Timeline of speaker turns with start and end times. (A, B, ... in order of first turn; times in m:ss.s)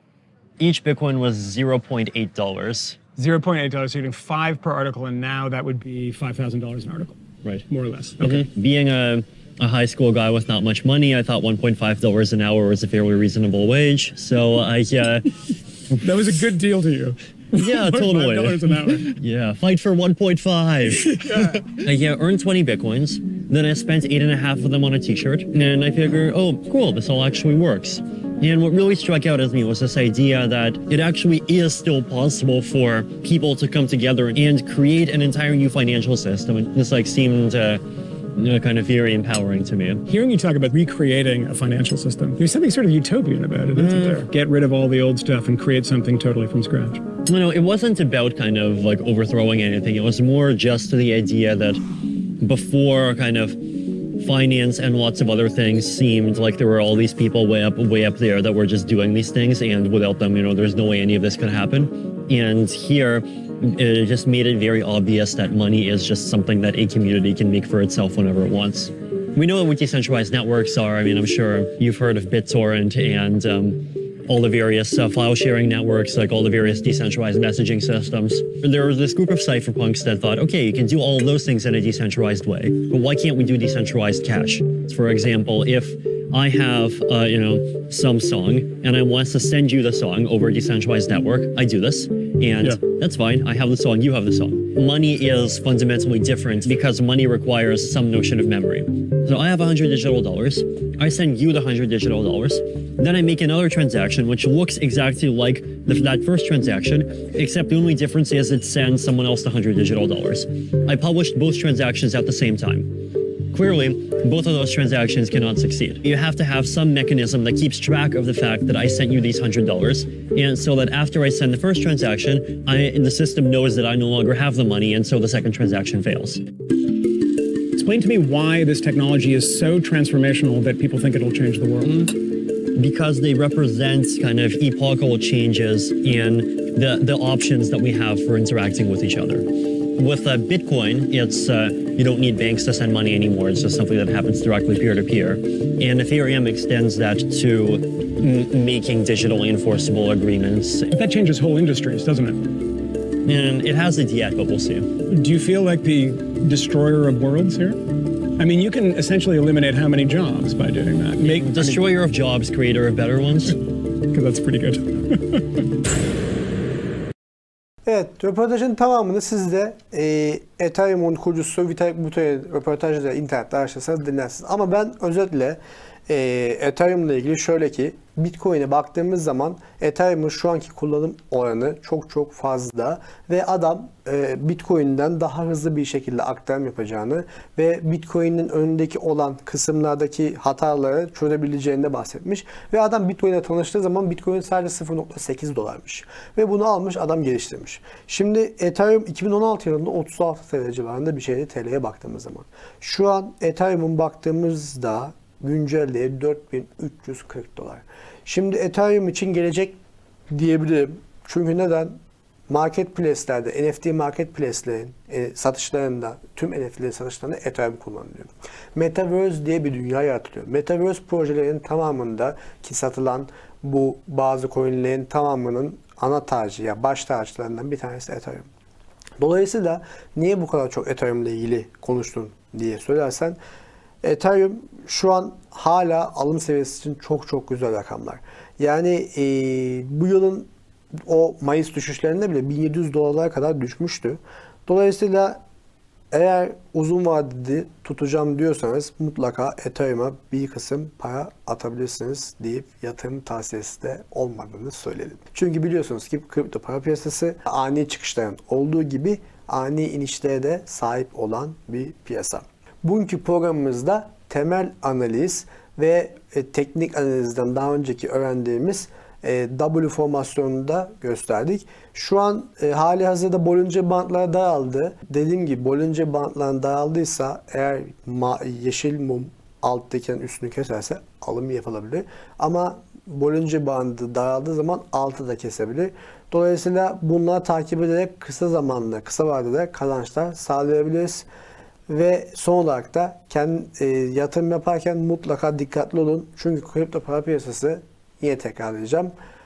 0:00.6-0:03.0 A
0:03.2-0:08.4 B
0:08.2-0:15.4 A
0:16.0-0:19.2 B
0:17.6-0:37.8 A
0:21.0-0:21.8 B
0:38.4-0:40.0 A
0:40.1-0:47.0 B
0:43.7-0:44.3 A
0:47.3-0:51.8 A
0:52.4-2:06.4 A
2:07.8-2:12.1 B
2:12.0-2:30.9 A
2:30.9-2:32.5 B
2:33.2-2:34.9 A
2:35.1-2:41.9 B
2:41.2-2:43.6 A
2:44.1-2:45.6 B
2:47.9-3:29.8 C
3:30.3-3:32.0 C
3:32.5-3:48.5 C
3:49.2-3:53.4 C
3:54.0-4:00.5 C
4:01.1-4:05.4 C
4:06.1-4:51.3 C
4:51.9-4:59.1 C